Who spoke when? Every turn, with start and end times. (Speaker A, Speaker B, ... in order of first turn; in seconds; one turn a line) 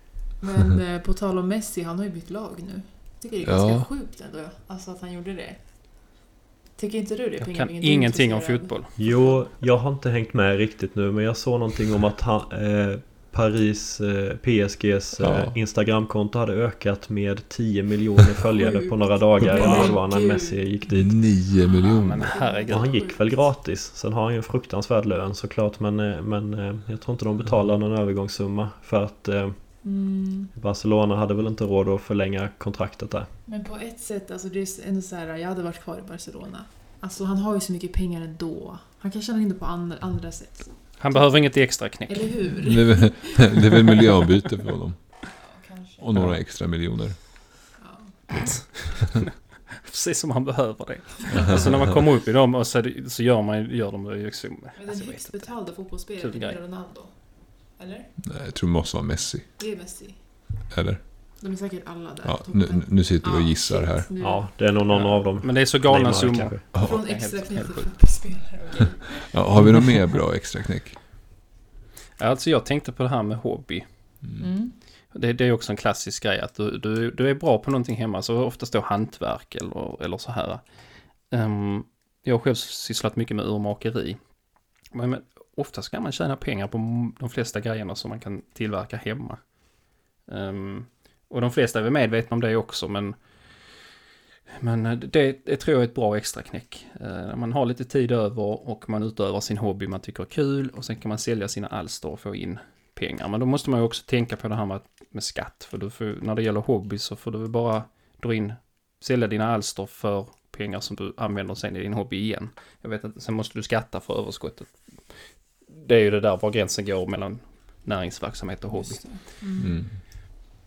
Speaker A: 0.4-9.4
Speaker B: 3.4-3.9
Speaker C: 7.4-8.9
Speaker D: 8.9-21.2
Speaker B: 15.2-15.6
Speaker A: 18.6-23.6
Speaker B: 20.9-22.3
Speaker C: 21.7-23.0
Speaker D: 22.7-33.3
Speaker A: 29.8-30.5
Speaker A: 33.4-43.7
Speaker C: 41.0-42.5
Speaker B: 42.6-45.3
Speaker A: 45.3-46.2
Speaker B: 46.0-47.3
Speaker C: 46.1-46.4
Speaker A: 47.8-48.9
Speaker C: 49.7-56.6
Speaker A: 51.3-52.0
Speaker A: 54.8-58.1
Speaker B: 58.2-59.6
Speaker A: 59.6-60.7
Speaker B: 60.7-61.0
Speaker A: 61.4-64.7
Speaker B: 62.2-64.1
Speaker D: 64.2-66.6
Speaker C: 64.9-68.4
Speaker A: 66.8-69.6
Speaker B: 69.3-71.0
Speaker C: 72.2-74.2
Speaker A: 74.4-74.8
Speaker C: 75.1-93.8
Speaker C: 94.5-119.2
Speaker A: 118.7-119.9
Speaker B: 119.6-120.0